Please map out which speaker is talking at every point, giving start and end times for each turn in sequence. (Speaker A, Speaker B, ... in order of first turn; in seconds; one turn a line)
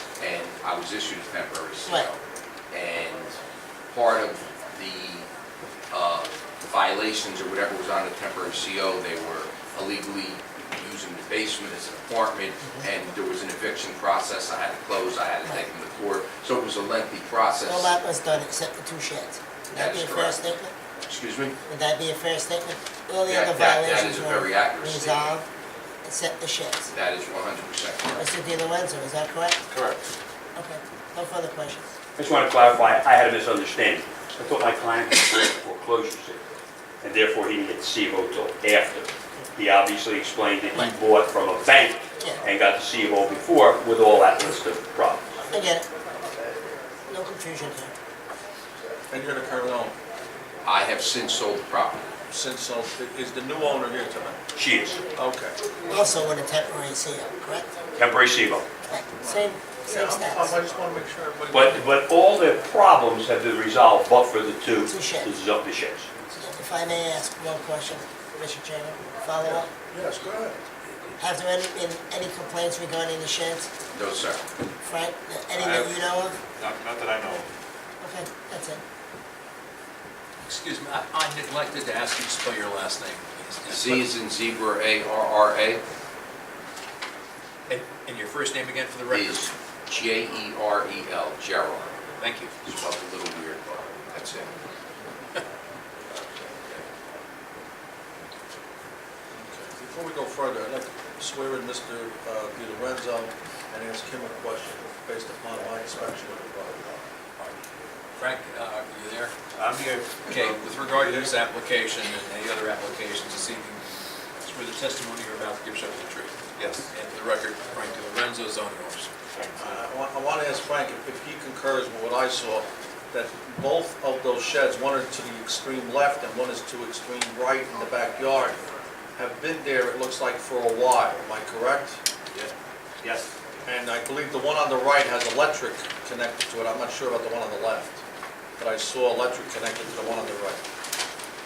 Speaker A: 0.2-2.2
Speaker A: 2.7-3.4
Speaker A: 3.9-5.3
Speaker A: 5.9-17.9
Speaker B: 17.6-20.7
Speaker A: 19.7-20.4
Speaker A: 21.1-21.6
Speaker B: 21.7-25.4
Speaker A: 23.3-25.4
Speaker B: 26.0-26.9
Speaker A: 26.9-28.2
Speaker B: 28.2-29.6
Speaker C: 29.7-30.0
Speaker B: 30.6-31.9
Speaker D: 32.1-36.4
Speaker D: 37.0-45.2
Speaker B: 45.5-45.9
Speaker B: 47.1-47.9
Speaker C: 49.1-49.9
Speaker A: 50.6-52.1
Speaker C: 52.3-54.4
Speaker D: 54.5-55.0
Speaker C: 55.1-56.0
Speaker B: 55.9-57.7
Speaker D: 58.0-58.7
Speaker B: 58.9-60.5
Speaker C: 59.2-61.8
Speaker D: 61.5-66.1
Speaker B: 64.8-65.3
Speaker B: 66.4-69.7
Speaker C: 69.4-70.6
Speaker B: 71.2-73.7
Speaker A: 73.9-74.4
Speaker B: 74.8-76.4
Speaker E: 75.5-77.5
Speaker B: 78.0-78.8
Speaker F: 80.4-84.0
Speaker A: 83.7-85.8
Speaker F: 87.7-89.4
Speaker A: 89.1-92.0
Speaker F: 92.2-92.6
Speaker A: 92.6-94.5
Speaker C: 99.3-107.0
Speaker F: 108.2-109.3
Speaker E: 109.5-111.2
Speaker F: 110.2-113.8
Speaker F: 114.4-116.3
Speaker E: 116.6-116.8
Speaker F: 116.9-119.1
Speaker E: 119.3-119.8
Speaker C: 119.6-128.6
Speaker C: 129.2-132.0
Speaker E: 133.0-133.3
Speaker C: 133.7-138.0
Speaker C: 138.6-140.6